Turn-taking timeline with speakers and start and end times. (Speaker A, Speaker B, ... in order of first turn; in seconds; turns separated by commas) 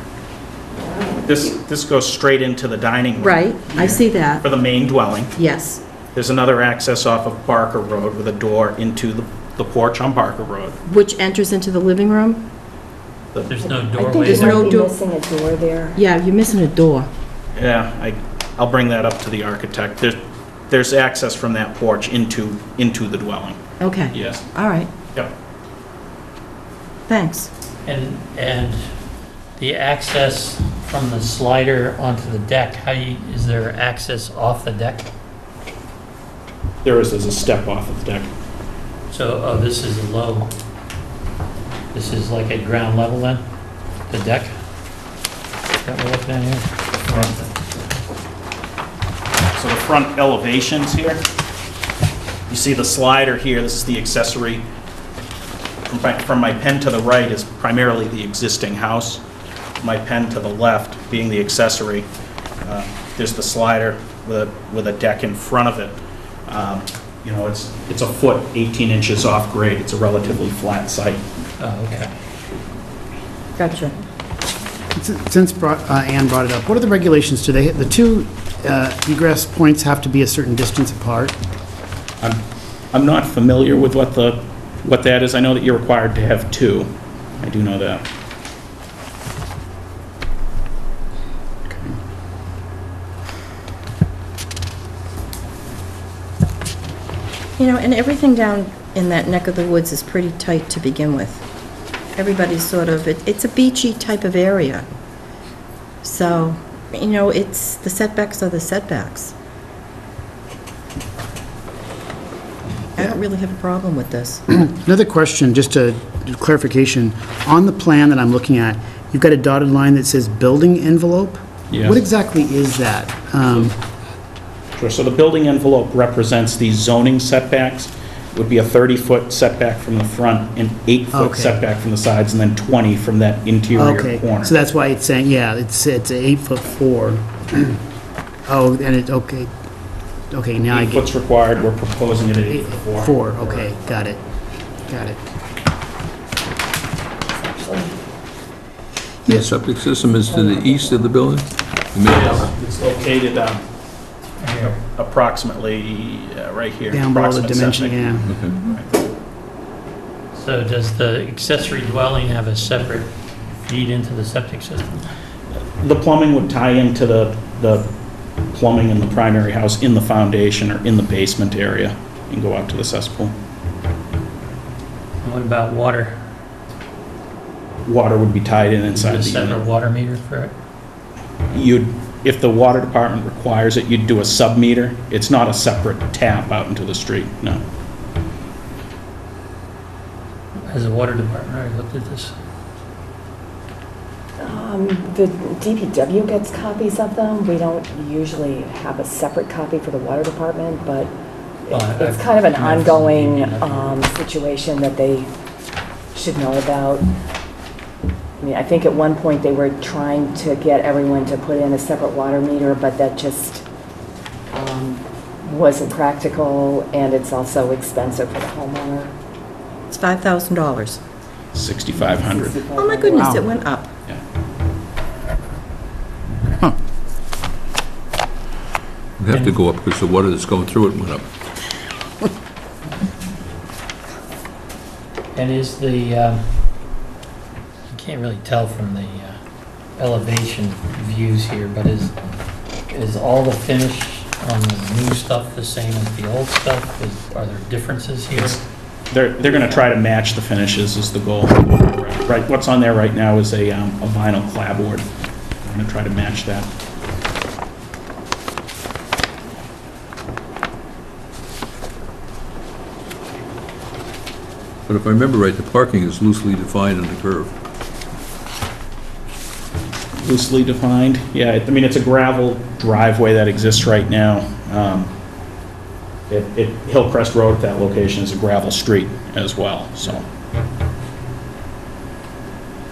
Speaker A: 1.2-5.3, Speaker B: 3.2-4.5, Speaker B: 5.3-5.8, Speaker A: 6.1-10.8, Speaker B: 10.9-12.4, Speaker C: 13.5-14.7, Speaker D: 13.7-16.0, Speaker B: 14.2-14.9, Speaker B: 15.9-17.1, Speaker A: 17.6-20.2, Speaker A: 20.7-23.6, Speaker B: 23.8-24.9, Speaker A: 24.1-24.4, Speaker B: 27.1-27.5, Speaker C: 27.9-28.8, Speaker C: 29.6-35.1, Speaker A: 36.8-38.3, Speaker C: 39.1-40.5, Speaker C: 41.9-43.4, Speaker C: 44.1-44.5, Speaker C: 45.8-47.5, Speaker A: 49.5-51.2, Speaker A: 52.5-54.7, Speaker A: 55.9-59.2, Speaker A: 59.8-62.1, Speaker A: 62.6-71.2, Speaker C: 71.6-72.1, Speaker B: 73.6-73.9, Speaker E: 75.0-81.3, Speaker A: 82.2-88.0, Speaker E: 91.7-92.0, Speaker B: 97.6-101.4, Speaker B: 102.2-104.8, Speaker B: 106.0-109.3, Speaker B: 113.0-114.4, Speaker E: 114.5-123.8, Speaker A: 121.7-122.0, Speaker A: 124.8-134.5, Speaker E: 131.1-131.6, Speaker E: 133.7-137.8, Speaker E: 138.5-139.5, Speaker E: 140.3-141.1, Speaker A: 140.7-143.7, Speaker E: 142.5-144.2, Speaker E: 144.8-145.2, Speaker D: 147.5-147.9, Speaker F: 149.3-152.5, Speaker D: 150.3-150.8, Speaker A: 152.1-153.6, Speaker C: 154.4-154.8, Speaker A: 154.6-159.1, Speaker E: 156.9-158.3, Speaker F: 158.3-158.6, Speaker C: 160.3-163.1, Speaker C: 163.7-165.1, Speaker A: 165.8-167.9, Speaker A: 168.5-173.3, Speaker C: 175.2-176.2, Speaker A: 177.8-179.6, Speaker C: 178.9-180.5, Speaker A: 181.5-187.6, Speaker C: 190.6-192.3, Speaker D: 194.4-201.1, Speaker D: 201.7-205.3, Speaker C: 201.7-204.0, Speaker D: 206.1-207.1, Speaker D: 208.4-213.6, Speaker D: 214.5-219.1, Speaker B: 219.9-221.0, Speaker A: 221.5-222.6, Speaker D: 221.9-223.4, Speaker B: 222.7-223.9, Speaker F: 229.2-231.3, Speaker C: 235.3-236.4, Speaker C: 237.9-239.3, Speaker C: 240.0-242.1, Speaker C: 242.9-248.6, Speaker A: 248.3-248.6, Speaker A: 249.1-255.1, Speaker A: 255.6-256.7, Speaker F: 264.9-267.5, Speaker A: 270.2-275.1, Speaker A: 276.3-280.2